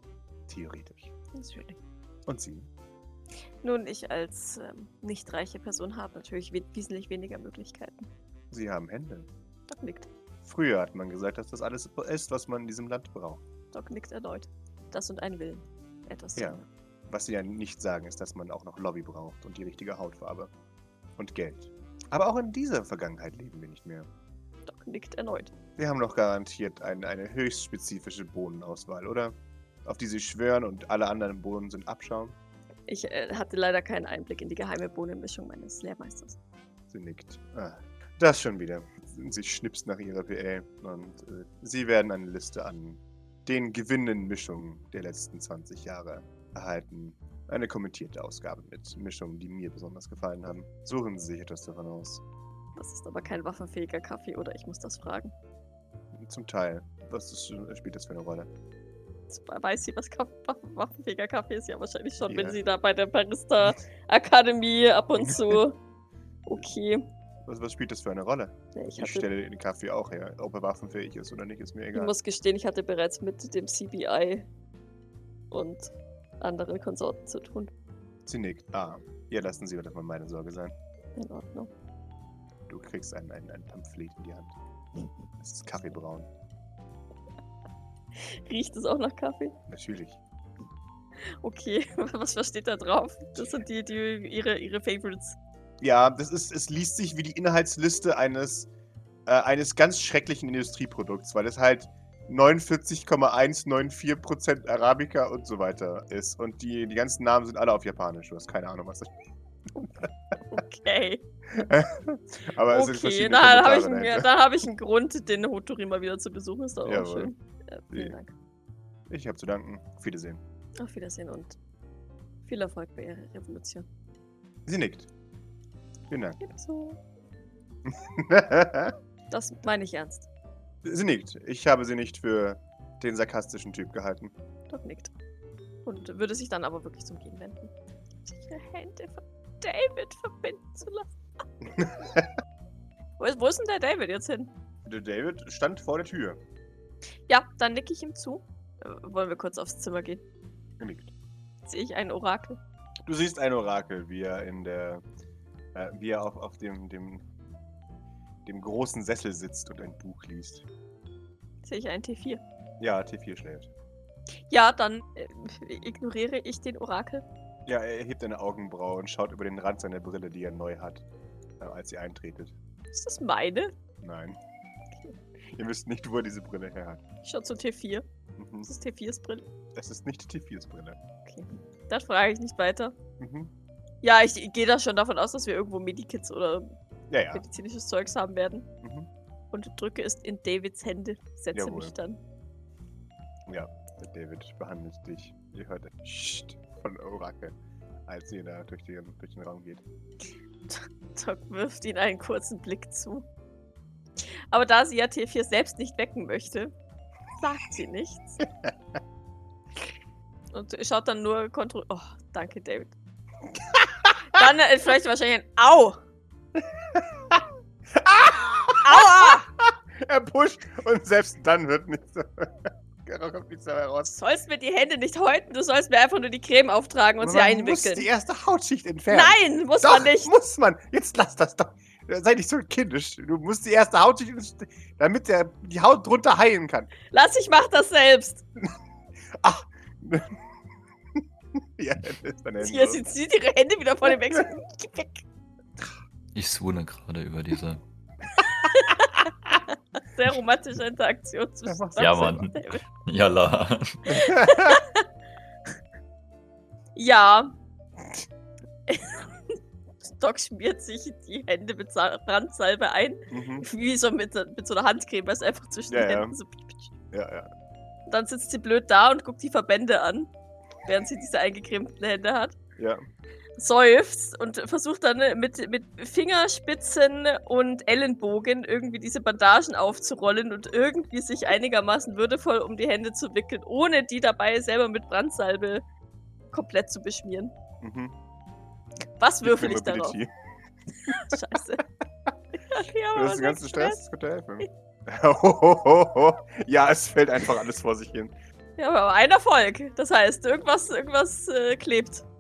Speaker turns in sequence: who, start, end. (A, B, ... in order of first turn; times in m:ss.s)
0:00.5-0:01.1 A
0:01.3-0:01.8 B
0:02.2-0:02.7 A
0:03.6-0:08.1 B
0:08.5-0:09.3 A
0:09.7-0:10.1 B
0:10.4-0:13.4 A
0:13.7-0:16.6 B
0:16.4-0:20.5 A
0:21.2-0:24.1 A
0:24.7-0:25.5 B
0:25.8-0:32.4 A
0:32.9-0:36.4 B
0:36.9-0:52.2 A
0:52.8-0:55.3 B
0:56.1-0:58.5 A
0:59.3-1:05.8 B
1:02.3-1:02.6 A
1:05.2-1:05.6 A
1:06.4-1:07.1 B
1:07.4-1:12.1 A
1:08.7-1:09.3 B
1:11.9-1:14.5 B
1:15.5-1:17.7 B
1:18.2-1:20.8 A
1:21.2-1:21.7 B
1:22.7-1:24.6 A
1:25.4-1:26.3 A
1:28.2-1:29.6 B
1:29.7-1:30.2 A
1:31.4-1:35.4 B
1:35.8-1:38.7 A
1:39.2-1:49.1 A
1:49.8-1:50.1 A
1:50.4-1:51.2 B
1:51.5-1:54.3 A
1:52.7-1:58.3 B
1:56.8-1:57.3 A
1:59.1-2:00.4 A
2:00.8-2:01.6 B
2:02.4-2:03.9 B
2:04.6-2:05.1 A
2:06.1-2:06.4 A
2:06.4-2:07.0 B
2:07.8-2:09.0 A
2:09.3-2:10.3 B
2:10.8-2:14.3 A
2:14.7-2:15.1 B
2:15.8-2:17.7 B
2:18.2-2:21.1 B
2:21.8-2:22.3 A
2:23.2-2:24.5 B
2:24.8-2:26.4 A
2:27.3-2:30.2 B
2:30.8-2:31.1 A
2:31.6-2:32.6 B
2:33.0-2:35.0 A
2:35.7-2:37.3 A
2:38.4-2:40.6 A
2:41.6-2:42.4 B
2:42.8-2:43.7 A
2:44.5-2:47.2 B
2:47.6-2:51.0 A
2:51.6-2:52.6 A
2:52.9-2:53.7 B
2:54.0-2:54.4 A
2:55.5-2:57.0 A
2:57.2-2:58.0 B
2:58.4-2:58.7 A
2:58.6-2:59.5 B
2:59.7-3:01.0 A
3:01.2-3:02.9 B
3:03.2-3:03.5 A
3:04.0-3:06.8 B
3:07.1-3:07.4 A
3:07.3-3:08.7 B
3:08.8-3:09.1 A
3:09.5-3:12.2 B
3:11.5-3:11.9 A
3:13.5-3:17.6 A
3:18.1-3:19.8 A
3:20.7-3:23.3 B
3:24.5-3:26.7 B
3:27.4-3:28.4 B
3:30.5-3:32.9 B
3:33.7-3:34.1 A
3:34.3-3:36.0 B
3:36.6-3:44.1 A
3:38.8-3:39.5 B
3:44.1-3:48.1 B
3:47.2-3:56.9 A
3:49.1-3:50.3 B
3:57.1-3:58.4 B
3:59.3-4:00.4 A
4:01.1-4:03.0 A
4:02.6-4:05.2 B
4:06.3-4:07.8 C
4:08.3-4:12.8 B
4:11.7-4:12.4 A
4:12.0-4:14.2 C
4:14.1-4:14.8 A
4:14.1-4:15.0 B
4:17.0-4:17.5 B
4:18.9-4:26.9 B
4:23.3-4:23.6 A
4:25.9-4:26.4 A
4:27.1-4:27.5 A
4:28.1-4:30.3 B
4:30.8-4:32.5 B
4:32.8-4:33.0 A
4:33.6-4:45.8 B
4:46.5-4:47.6 B
4:47.8-4:48.1 A
4:49.2-4:50.2 B
4:49.4-4:50.3 A
4:51.0-4:51.8 B
4:52.6-4:54.0 B
4:53.1-4:58.3 A
4:58.8-5:02.2 B